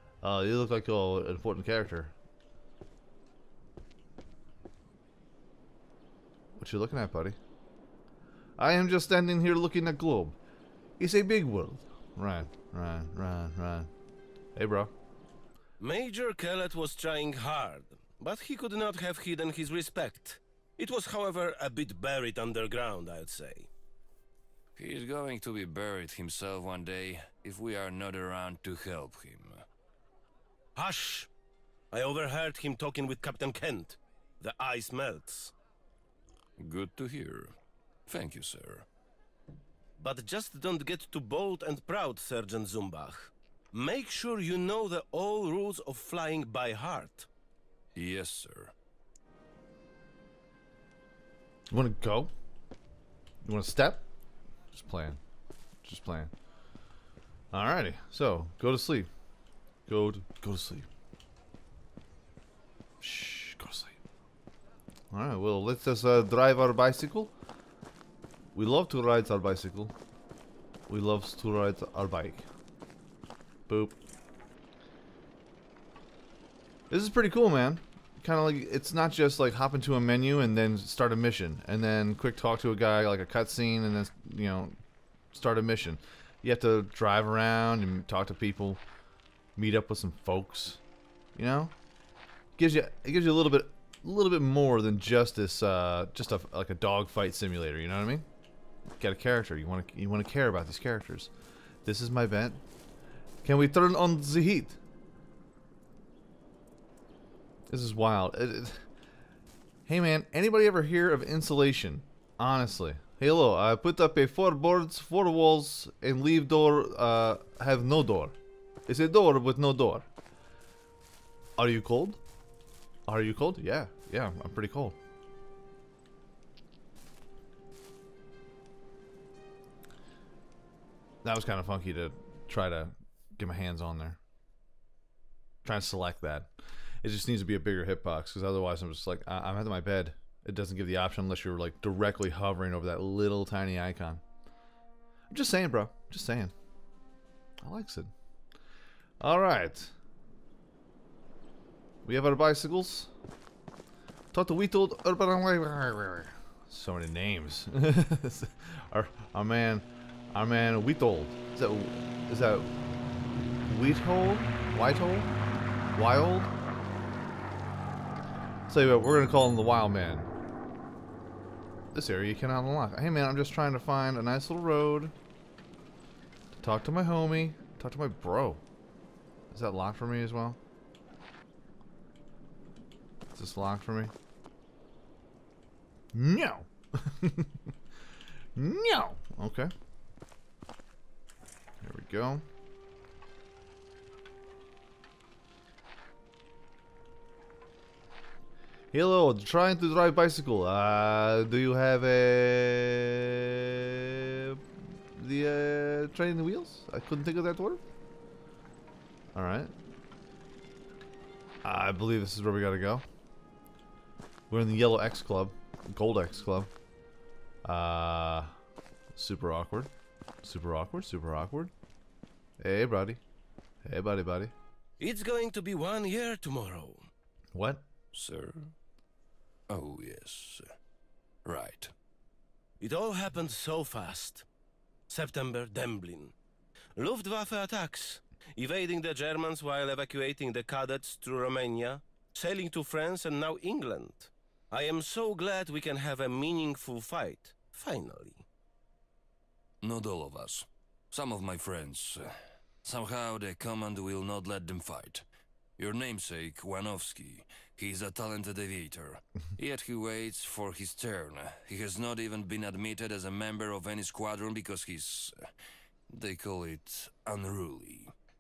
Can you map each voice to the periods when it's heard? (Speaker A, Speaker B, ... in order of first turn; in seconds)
Speaker A: 0.2-2.1, 6.6-7.4, 8.6-10.4, 11.0-13.9, 14.6-14.9, 51.7-52.3, 53.4-54.0, 54.7-55.2, 55.8-56.3, 57.5-59.1, 59.9-60.9, 63.0-64.0, 65.1-67.3, 68.5-69.9, 70.9-72.5, 73.7-74.0, 76.9-84.8, 85.3-88.8, 89.6-90.8, 91.4-91.7, 92.6-98.3, 99.0-101.3, 101.8-102.6, 103.4-104.8, 107.7-108.8, 109.9-118.3, 118.9-120.1, 121.6-122.2, 123.1-125.0, 131.2-134.2, 135.6-136.5, 137.0-144.2, 145.3-146.5, 147.6-148.1, 149.2-149.9, 152.1-153.1, 154.3-162.7, 163.7-165.3, 165.9-166.5, 168.7-170.3, 171.9-175.1, 176.6-178.6, 179.5-180.6, 183.3-184.1, 186.1-187.5, 188.6-189.7, 191.8-192.4, 198.9-204.6, 205.2-207.8, 209.3-209.7, 211.6-213.1, 214.5-216.7, 217.7-218.5, 219.2-219.9, 220.4-221.7, 222.6-223.2, 223.8-224.5, 227.5-227.8
Speaker B: 15.8-23.7, 30.8-31.3, 31.9-35.5, 40.0-47.3, 225.0-227.1, 232.8-234.5, 235.1-236.3, 237.0-248.4
Speaker C: 24.8-29.6, 36.6-37.5, 38.1-38.9, 48.0-48.7, 228.1-228.7, 229.7-230.7, 231.4-231.9, 249.8-255.2, 255.8-265.4, 266.1-268.1